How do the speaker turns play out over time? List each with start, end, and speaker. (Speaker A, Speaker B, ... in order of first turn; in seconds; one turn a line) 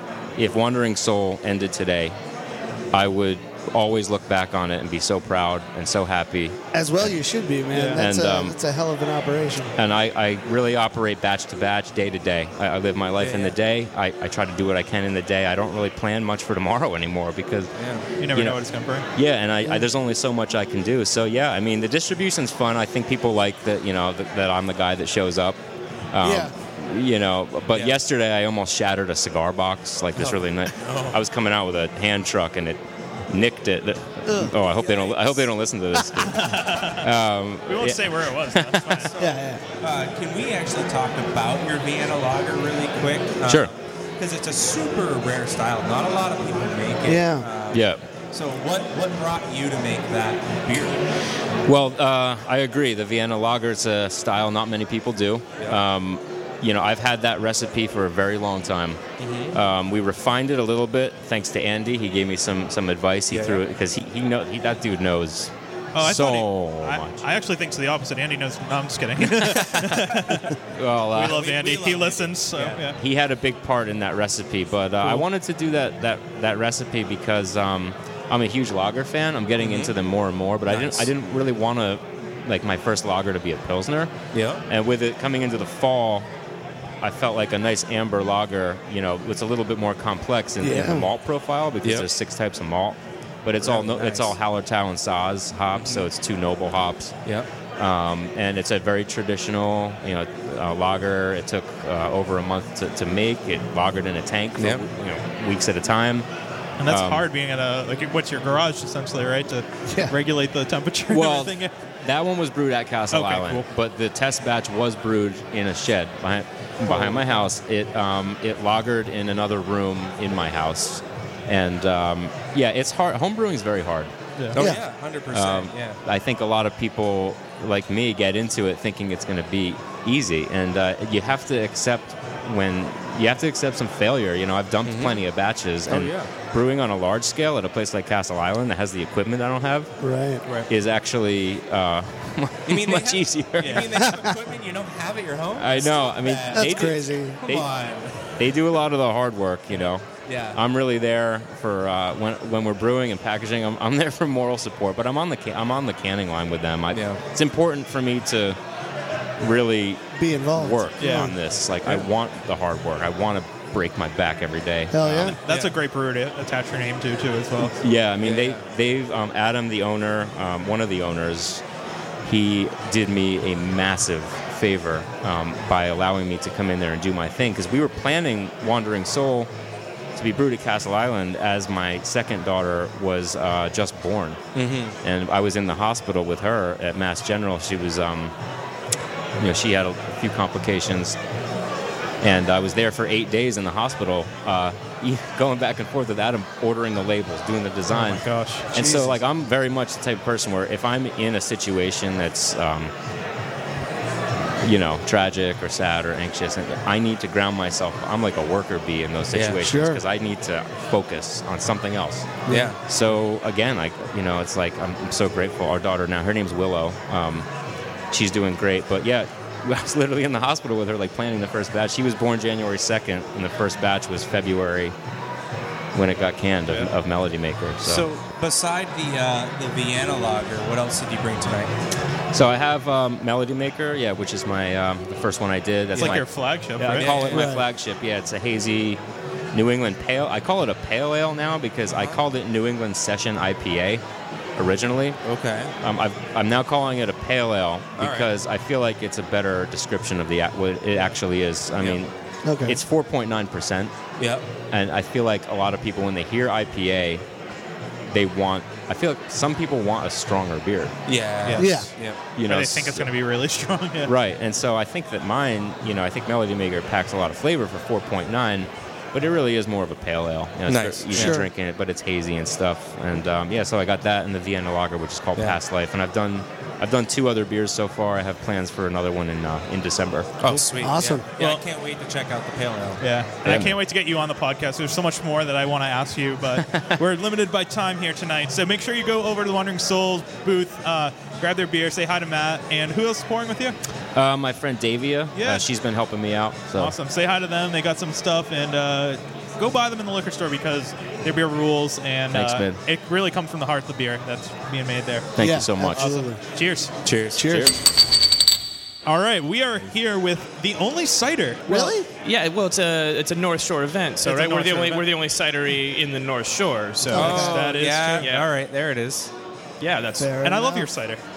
Speaker A: 0.4-2.2
Speaker A: 2.9-7.1
Speaker B: 6.7-9.7
Speaker A: 7.9-8.6
Speaker A: 9.8-17.7
Speaker C: 13.2-13.6
Speaker C: 17.8-18.1
Speaker D: 18.2-19.1
Speaker A: 18.3-18.6
Speaker A: 19.1-25.6
Speaker A: 26.1-39.1
Speaker B: 26.2-26.5
Speaker C: 30.8-31.2
Speaker B: 34.3-34.5
Speaker D: 36.3-37.1
Speaker D: 37.7-39.1
Speaker B: 39.2-39.6
Speaker C: 39.8-51.0
Speaker B: 47.0-47.5
Speaker A: 47.7-48.0
Speaker A: 51.7-59.0
Speaker C: 59.2-59.5
Speaker A: 59.5-67.2
Speaker C: 63.3-63.6
Speaker D: 65.9-70.5
Speaker A: 70.8-71.4
Speaker D: 71.1-73.0
Speaker C: 71.2-72.9
Speaker A: 72.9-84.1
Speaker C: 79.6-79.9
Speaker C: 80.7-81.1
Speaker C: 84.3-84.6
Speaker A: 84.7-86.3
Speaker A: 87.0-97.2
Speaker B: 90.6-91.1
Speaker C: 93.6-94.3
Speaker C: 95.7-96.0
Speaker A: 97.8-106.3
Speaker C: 104.6-104.8
Speaker D: 106.8-111.7
Speaker A: 106.9-107.3
Speaker A: 111.1-124.1
Speaker D: 113.1-113.7
Speaker C: 124.5-126.0
Speaker B: 124.6-124.8
Speaker A: 125.3-139.9
Speaker C: 134.8-135.2
Speaker C: 135.9-136.3
Speaker B: 140.0-140.4
Speaker A: 140.7-144.1
Speaker C: 142.7-148.1
Speaker D: 143.6-143.9
Speaker B: 144.0-144.3
Speaker A: 145.6-147.7
Speaker B: 146.5-147.4
Speaker A: 148.3-158.6
Speaker C: 149.8-150.6
Speaker C: 156.9-157.2
Speaker A: 159.4-165.4
Speaker B: 160.1-161.3
Speaker D: 161.0-161.3
Speaker B: 164.9-165.4
Speaker D: 165.3-167.8
Speaker A: 167.8-171.6
Speaker C: 168.2-168.7
Speaker A: 172.2-179.5
Speaker A: 180.2-184.4
Speaker C: 184.6-184.9
Speaker A: 185.0-188.3
Speaker A: 189.4-191.2
Speaker A: 192.2-202.9
Speaker D: 197.9-198.7
Speaker A: 204.6-217.5
Speaker C: 209.3-209.6
Speaker B: 209.6-210.0
Speaker B: 212.5-212.7
Speaker C: 212.5-212.8
Speaker A: 218.1-224.9
Speaker A: 225.9-228.1
Speaker C: 227.8-231.7
Speaker A: 232.3-239.0
Speaker D: 235.9-237.3
Speaker C: 236.8-237.5
Speaker B: 237.3-237.6
Speaker A: 239.5-244.0
Speaker C: 241.9-242.2
Speaker A: 244.6-245.2
Speaker C: 245.2-245.7
Speaker A: 245.8-252.1
Speaker C: 248.0-248.3
Speaker B: 252.4-252.8
Speaker A: 252.6-254.0
Speaker C: 254.2-254.4
Speaker A: 254.7-257.2
Speaker A: 258.1-261.0
Speaker C: 261.1-262.2
Speaker B: 261.5-261.9
Speaker A: 262.3-263.1
Speaker D: 262.4-264.1
Speaker A: 264.0-280.5
Speaker C: 270.7-271.4
Speaker B: 271.1-271.5
Speaker C: 280.4-283.0
Speaker B: 280.8-281.3
Speaker D: 281.4-281.6
Speaker D: 283.0-293.8
Speaker A: 283.4-283.8
Speaker A: 286.6-287.0
Speaker A: 294.1-296.9
Speaker D: 295.3-295.7
Speaker D: 296.8-305.3
Speaker A: 302.3-302.8
Speaker A: 305.4-306.3
Speaker B: 305.4-306.4
Speaker D: 305.9-306.9
Speaker C: 307.0-307.5
Speaker B: 307.3-307.7
Speaker A: 307.4-307.7
Speaker D: 309.1-311.9
Speaker B: 311.7-312.1
Speaker E: 312.2-317.4
Speaker D: 314.2-315.1
Speaker B: 317.1-317.7
Speaker C: 317.1-319.3
Speaker D: 317.2-318.3
Speaker E: 318.2-318.5
Speaker E: 319.8-320.4
Speaker B: 320.2-320.9
Speaker D: 320.4-321.2